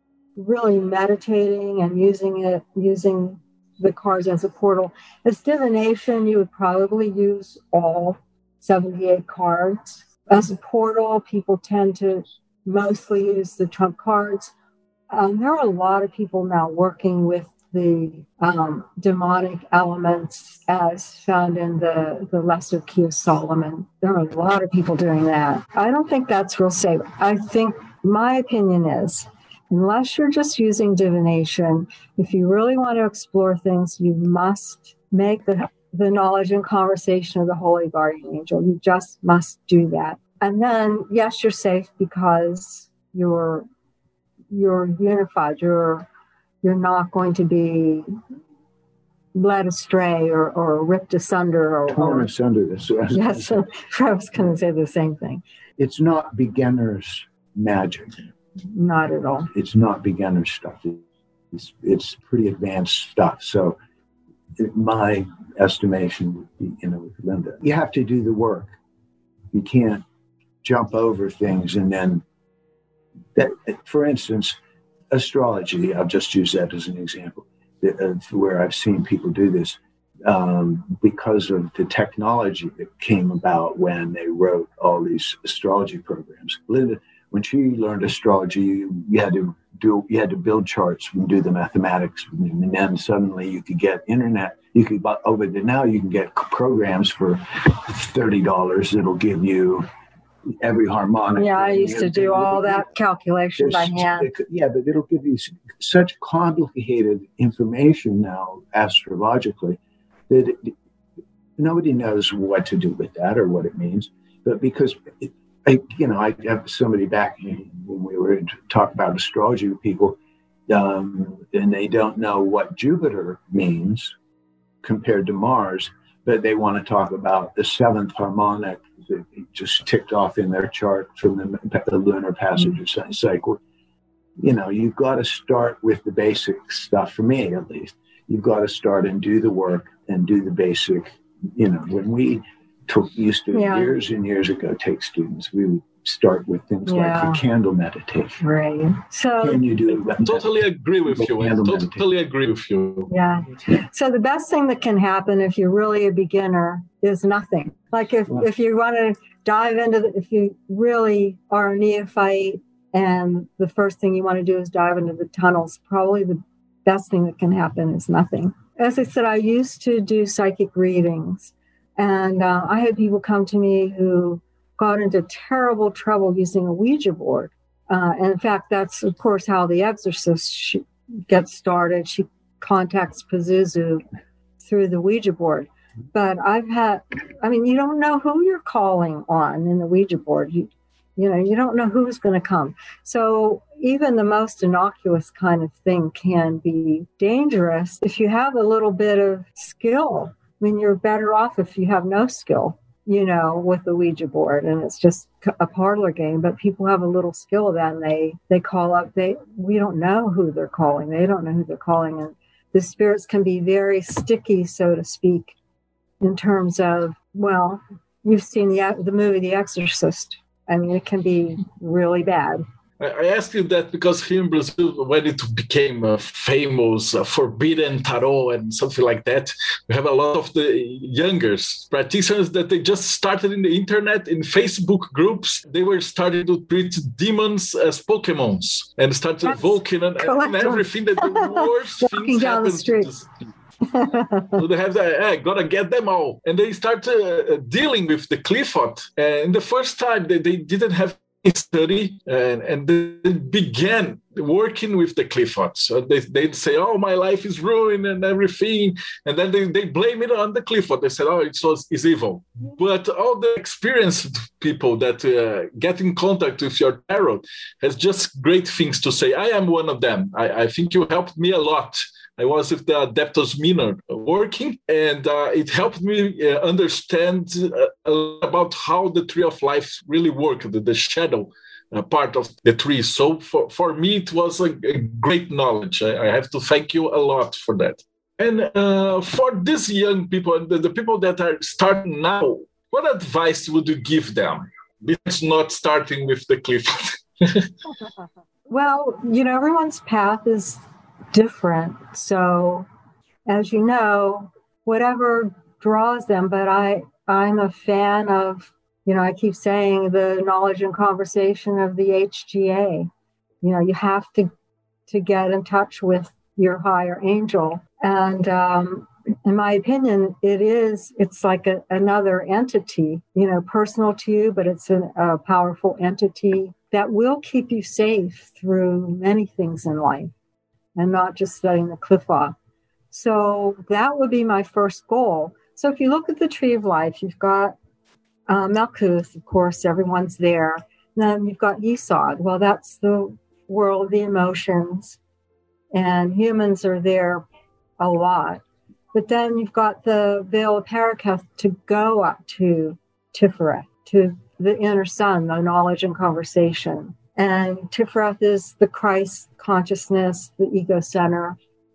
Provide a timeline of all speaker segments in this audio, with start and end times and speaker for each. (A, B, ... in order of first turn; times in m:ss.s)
0:00.4-0:14.5 A
0:15.1-0:43.7 A
0:44.5-0:46.1 A
0:46.6-0:48.2 A
0:49.3-0:52.3 A
0:51.9-0:53.7 B
0:53.1-0:55.4 A
0:55.8-0:58.2 B
0:58.7-0:59.5 A
0:59.5-1:03.8 B
1:04.6-1:08.8 B
1:09.5-1:10.0 B
1:10.6-1:12.2 B
1:13.4-1:14.6 B
1:15.1-1:39.9 B
1:40.5-1:42.9 B
1:41.4-1:44.3 A
1:43.6-1:50.8 B
1:51.6-2:00.2 B
2:00.7-2:04.1 B
2:04.8-2:13.6 B
2:14.4-2:28.4 B
2:23.5-2:23.9 A
2:26.9-2:27.4 A
2:28.4-2:29.6 A
2:29.4-2:32.0 B
2:30.1-2:33.1 C
2:33.1-3:04.0 A
3:04.6-3:35.5 A
3:36.2-3:42.6 A
3:43.0-4:03.5 C
3:59.5-4:03.1 A
4:03.9-4:04.6 A
4:04.6-4:57.7 C
4:58.7-5:02.9 A
5:03.5-5:13.1 A
5:13.6-5:14.5 A
5:15.1-5:30.3 A
5:31.0-5:32.6 A
5:33.1-5:37.8 A
5:38.5-5:45.2 A
5:45.9-5:47.4 A
5:48.0-5:48.6 A
5:49.1-6:01.6 A